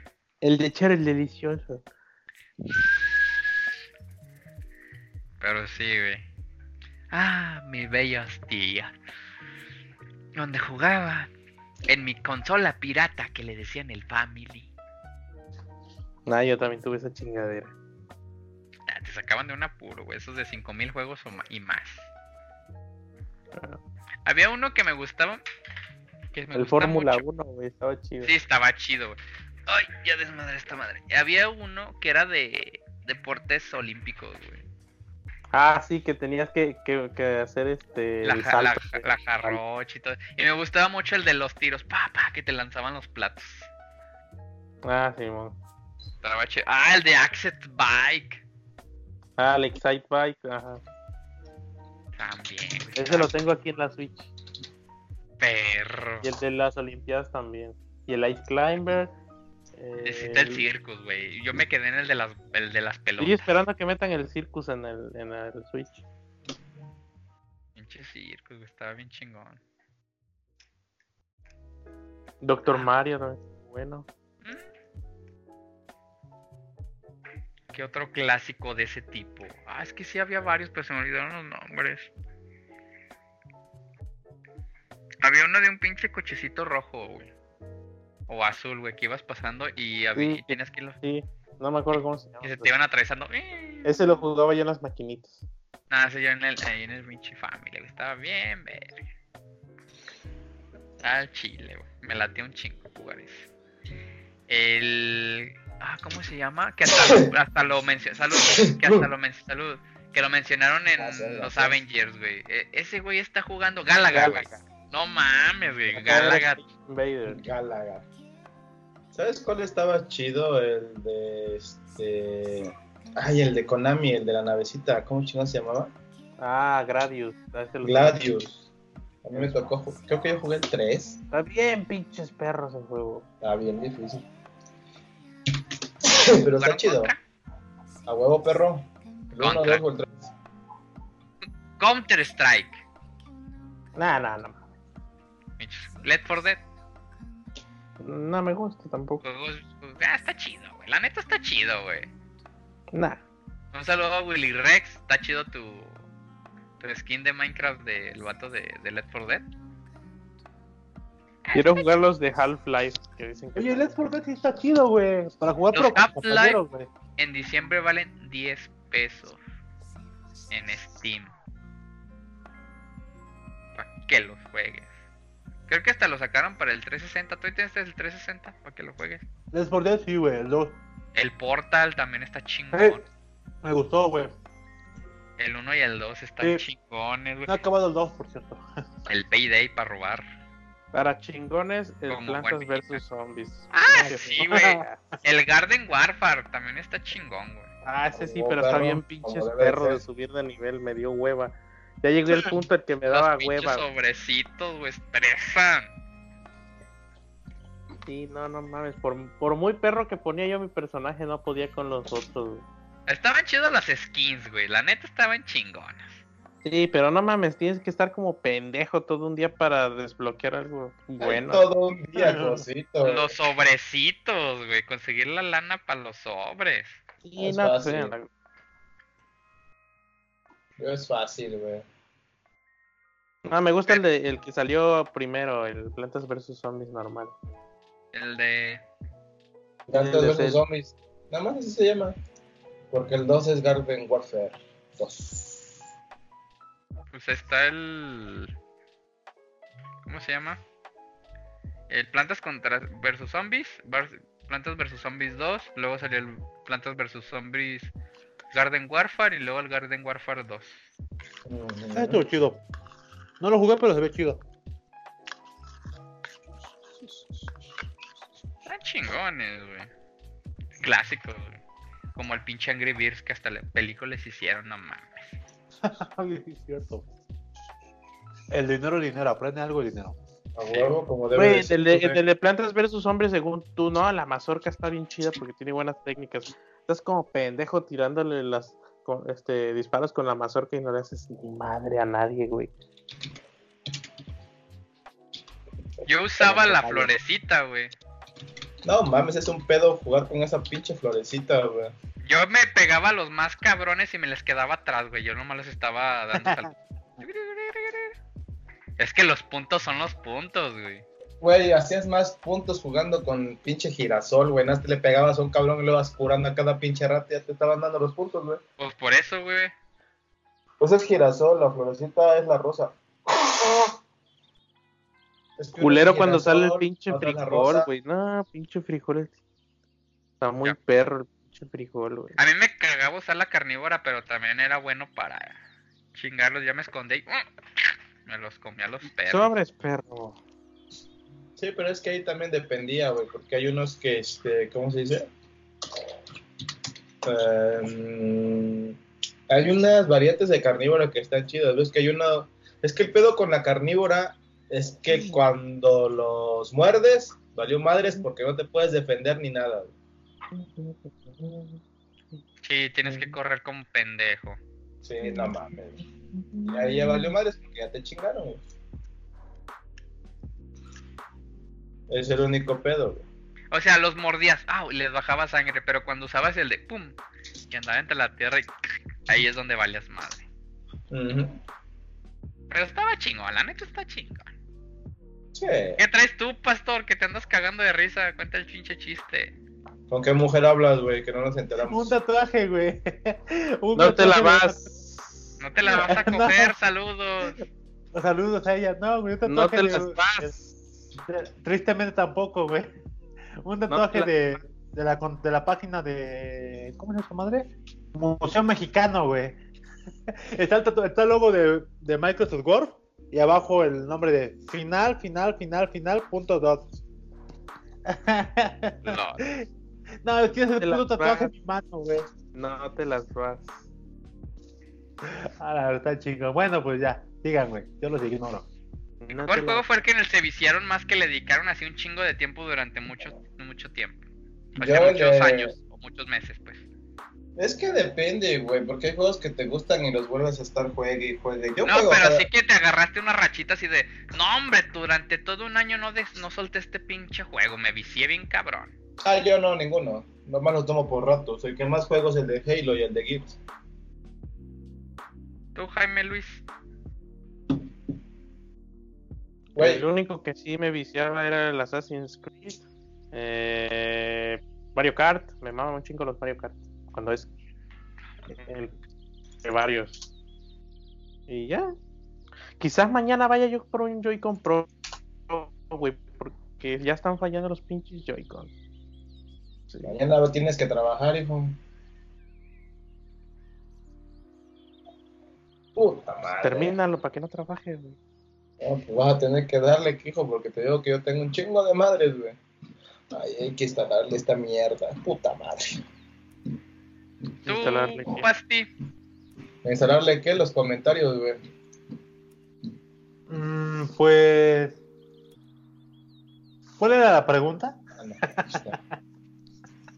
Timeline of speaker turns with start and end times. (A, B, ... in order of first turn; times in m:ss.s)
0:00.4-0:01.8 A
0:05.4-0:06.2 B
0:07.1-0:08.9 B
0:10.4-0:11.3 B
0:11.9-0:14.7 B
0:16.3-0:17.7 A
0:18.9-0:22.1 B
0:23.5-0:23.8 A
0:24.3-0:25.4 B
0:26.3-0:27.2 B
0:26.5-0:28.3 A
0:28.2-0:34.6 B
0:35.5-0:39.6 A
0:38.2-0:43.7 B
0:44.8-0:45.6 A
0:46.2-0:48.4 B
0:49.4-0:50.8 A
0:52.2-0:53.3 B
0:53.0-0:54.3 A
0:55.4-0:56.3 B
0:56.2-0:59.1 A
0:59.8-1:00.6 A
1:00.0-1:03.5 B
1:03.2-1:06.0 A
1:07.8-1:09.6 B
1:12.4-1:14.1 A
1:14.4-1:14.7 B
1:17.7-1:22.1 B
1:25.2-1:27.3 B
1:28.3-1:31.0 B
1:30.2-1:32.7 A
1:32.4-1:34.2 B
1:33.8-1:35.4 A
1:35.9-1:39.0 B
1:41.0-1:43.5 B
1:44.5-1:56.6 B
1:46.9-1:47.3 C
1:48.4-1:49.1 C
1:51.0-1:51.8 C
1:54.1-1:54.6 A
1:55.9-1:57.4 A
1:57.3-1:58.0 C
1:59.1-2:05.9 C
2:06.4-2:08.2 A
2:07.8-2:08.7 C
2:09.2-2:11.2 C
2:11.3-2:13.3 A
2:13.4-2:14.3 C
2:16.0-2:17.1 C
2:16.6-2:17.2 B
2:18.1-2:20.2 C
2:19.4-2:19.8 B
2:21.8-2:22.8 B
2:24.0-2:24.6 A
2:25.6-2:26.6 B
2:28.0-2:29.2 A
2:29.2-2:32.1 B
2:32.9-2:33.2 A
2:33.7-2:36.0 B
2:36.8-2:39.5 B
2:41.5-2:41.9 B
2:41.5-2:44.0 A
2:43.6-2:46.9 D
2:45.7-2:46.6 B
2:47.2-2:49.4 B
2:50.5-2:51.3 B
2:53.8-2:54.9 B
2:55.7-2:59.2 B
2:59.5-3:00.8 D
3:01.2-3:03.0 B
3:02.7-3:03.0 D
3:03.6-3:04.4 D
3:05.4-3:07.6 B
3:07.5-3:08.6 D
3:09.1-3:10.2 B
3:10.9-3:15.0 A
3:12.1-3:13.0 B
3:13.7-3:17.7 B
3:14.0-3:14.8 D
3:17.8-3:23.8 A
3:18.1-3:20.0 C
3:22.3-3:22.5 B
3:23.1-3:25.9 B
3:28.1-3:32.6 A
3:33.1-3:36.2 B
3:36.6-3:41.6 A
3:41.2-3:43.3 C
3:42.2-3:42.6 D
3:43.0-3:47.0 B
3:47.2-3:48.3 A
3:47.4-3:48.2 C
3:50.8-3:51.8 C
3:53.5-3:57.3 A
3:58.1-3:58.8 B
3:59.9-4:02.2 C
3:59.9-4:00.6 A
4:02.9-4:05.7 C
4:07.1-4:08.5 B
4:10.1-4:10.6 B
4:11.9-4:17.9 B
4:18.5-4:20.8 B
4:21.5-4:22.2 C
4:21.9-4:22.6 D
4:23.4-4:24.4 D
4:28.7-4:29.9 B
4:30.8-4:31.6 B
4:32.2-4:35.4 B
4:35.8-4:37.1 D
4:38.5-4:40.2 D
4:40.6-4:42.2 C
4:40.7-4:40.9 B
4:41.4-4:52.7 A
4:56.1-4:57.9 B
4:56.5-4:57.1 D
4:58.8-5:01.9 C
5:02.2-5:08.2 B
5:06.4-5:06.6 D
5:09.0-5:11.0 B
5:11.4-5:18.6 C
5:18.8-5:19.7 B
5:20.8-5:24.0 C
5:25.6-5:27.9 C
5:25.8-5:29.4 A
5:30.4-5:32.4 A
5:32.4-5:35.6 B
5:36.1-5:37.5 B
5:38.2-5:39.5 B
5:39.3-5:40.4 A
5:41.6-5:45.3 C
5:47.2-5:49.0 C
5:49.5-5:59.9 C
5:55.1-5:55.4 A
6:00.5-6:01.8 A
6:02.6-6:04.6 B
6:03.0-6:03.4 A
6:05.0-6:06.0 C
6:05.2-6:05.5 A
6:06.3-6:07.3 A
6:06.7-6:08.6 C
6:12.1-6:13.2 C
6:13.7-6:17.2 B
6:17.7-6:18.7 B
6:19.3-6:20.4 B
6:21.1-6:21.6 C
6:22.7-6:24.5 B
6:25.5-6:26.0 C
6:26.0-6:29.6 B
6:30.1-6:32.1 C
6:31.9-6:34.9 D
6:34.0-6:35.0 A
6:35.6-6:37.6 B
6:35.9-6:36.7 D
6:38.1-6:40.5 D
6:39.5-6:40.7 A
6:41.3-6:42.9 D
6:43.6-6:49.6 D
6:43.9-6:44.3 A
6:50.3-6:56.9 D
6:58.1-6:59.7 D
6:59.0-6:59.4 B
7:00.2-7:02.3 D
7:00.8-7:01.5 A
7:02.5-7:03.8 A
7:05.2-7:08.7 D
7:09.2-7:09.8 A
7:09.3-7:14.2 B
7:14.8-7:16.8 B
7:14.8-7:15.7 C
7:17.6-7:22.5 C
7:21.8-7:28.9 B
7:29.2-7:33.6 C
7:35.8-7:36.6 B
7:39.8-7:40.1 C
7:39.8-7:47.5 A
7:48.5-7:49.0 A
7:49.6-7:50.3 A
7:51.5-7:51.9 A
7:52.8-7:54.9 A
7:55.5-7:58.7 A
8:00.0-8:01.8 C
8:06.0-8:07.0 C
8:06.6-8:08.2 A
8:08.8-8:12.6 C
8:13.3-8:16.0 C
8:17.7-8:18.5 A
8:17.7-8:18.9 B
8:19.8-8:21.6 C
8:23.5-8:25.0 D
8:27.0-8:29.0 D
8:28.2-8:29.0 C